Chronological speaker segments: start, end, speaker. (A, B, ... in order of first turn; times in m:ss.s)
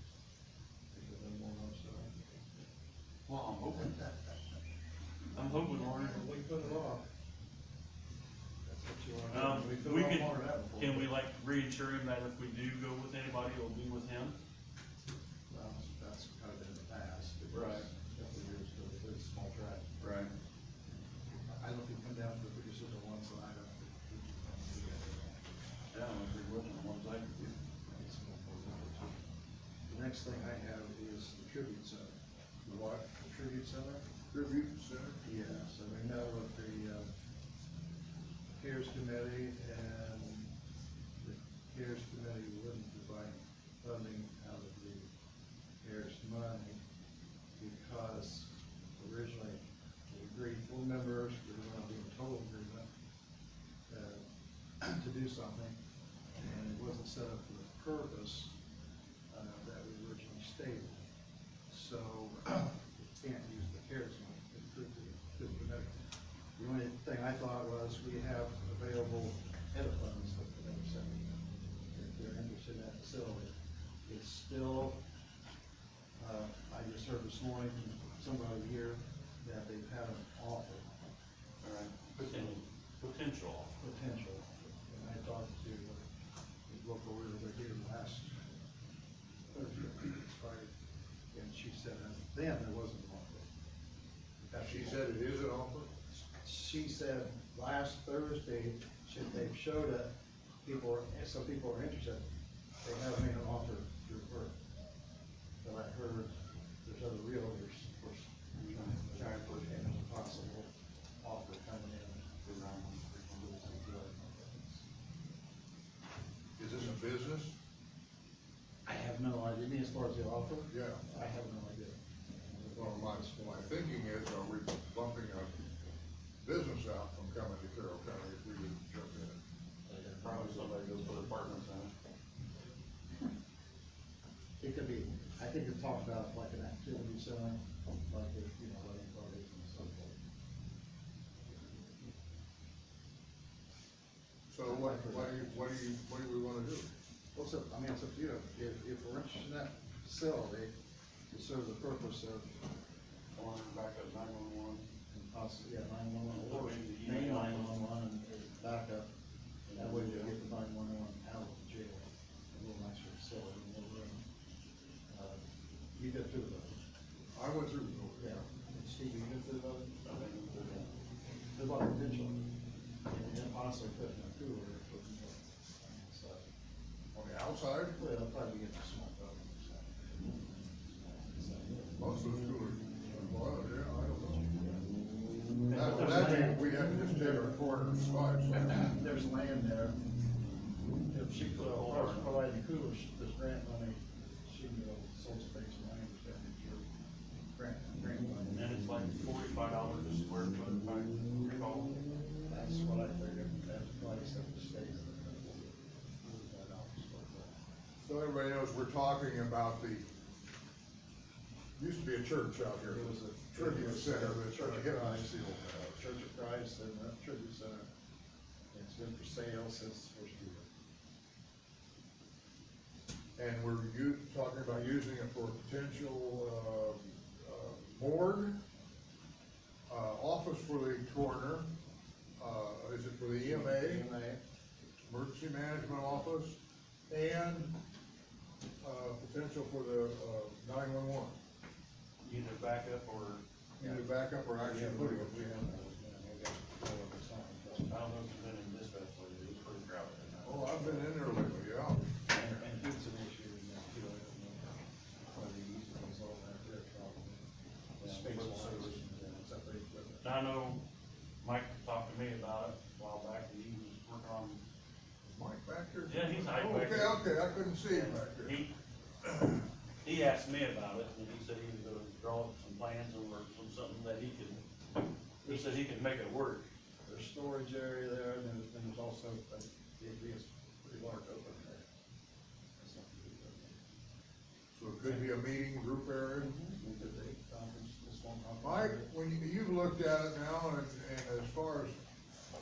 0:00.9-0:02.1 A
0:03.3-0:04.1 B
0:05.3-0:06.2 B
0:05.6-0:07.0 A
0:08.7-0:11.1 A
0:09.3-0:14.4 B
0:15.5-0:19.9 A
0:17.5-0:17.9 B
0:20.0-0:20.3 B
0:21.4-0:25.5 A
0:25.9-0:27.5 B
0:27.9-0:29.2 A
0:29.9-0:32.1 A
0:32.7-0:34.0 A
0:34.3-0:35.2 C
0:35.2-0:37.1 A
0:38.6-0:40.5 A
0:41.2-0:45.1 A
0:45.8-0:46.8 A
0:47.6-0:52.9 A
0:53.9-0:54.2 A
0:54.8-0:55.8 A
0:56.4-0:58.5 A
0:59.3-1:01.0 A
1:01.7-1:06.0 A
1:06.6-1:13.5 A
1:14.1-1:15.0 A
1:16.2-1:20.9 A
1:21.6-1:23.7 B
1:22.2-1:22.6 A
1:23.8-1:26.0 A
1:26.7-1:28.4 A
1:29.5-1:30.7 A
1:31.3-1:33.5 A
1:34.4-1:35.2 A
1:34.6-1:35.9 C
1:36.4-1:40.1 A
1:40.6-1:42.2 A
1:42.8-1:44.5 A
1:45.6-1:50.7 A
1:48.6-1:49.7 B
1:51.2-1:52.4 A
1:52.4-1:53.4 B
1:53.2-1:54.8 A
1:56.6-1:57.6 C
1:58.9-2:03.7 A
2:00.7-2:01.0 C
2:02.8-2:05.6 C
2:06.4-2:09.4 C
2:09.9-2:11.2 A
2:10.2-2:11.9 B
2:14.6-2:20.2 A
2:24.5-2:26.9 C
2:24.6-2:25.6 A
2:27.4-2:30.7 A
2:31.3-2:32.5 A
2:33.4-2:34.9 B
2:35.1-2:39.1 A
2:36.3-2:37.8 B
2:39.7-2:40.3 B
2:39.7-2:44.2 A
2:45.1-2:45.4 A
2:46.0-2:46.8 A
2:47.3-2:48.4 C
2:48.2-2:49.9 A
2:50.0-2:50.9 B
2:51.6-2:52.5 A
2:53.1-2:56.5 A
2:57.1-2:58.0 C
2:57.9-3:02.0 A
3:02.0-3:04.6 C
3:05.7-3:06.5 B
3:05.7-3:08.7 C
3:05.7-3:07.2 A
3:08.5-3:10.0 A
3:11.1-3:16.8 A
3:11.5-3:12.4 B
3:17.5-3:18.6 A
3:18.5-3:22.1 B
3:22.5-3:27.5 A
3:28.0-3:30.1 C
3:31.8-3:36.0 C
3:32.9-3:37.9 A
3:38.7-3:40.7 A
3:43.4-3:48.6 C
3:49.9-3:51.7 C
3:52.4-3:54.1 C
3:53.4-3:54.4 A
3:55.0-3:56.6 C
3:57.1-3:57.8 C
3:58.8-4:01.4 C
4:02.2-4:03.4 B
4:03.8-4:05.8 C
4:03.8-4:07.9 A
4:07.8-4:11.0 B
4:10.4-4:12.4 C
4:12.3-4:14.8 A
4:12.4-4:12.6 B
4:15.3-4:17.4 A
4:18.0-4:19.0 B
4:18.0-4:20.3 A
4:20.2-4:20.8 B
4:21.4-4:24.6 B
4:25.2-4:28.6 C
4:26.1-4:28.7 B
4:30.0-4:34.6 B
4:35.4-4:36.7 B
4:37.1-4:41.8 A
4:42.8-4:43.8 A
4:44.8-4:46.5 C
4:46.4-4:49.1 A
4:48.6-4:52.0 C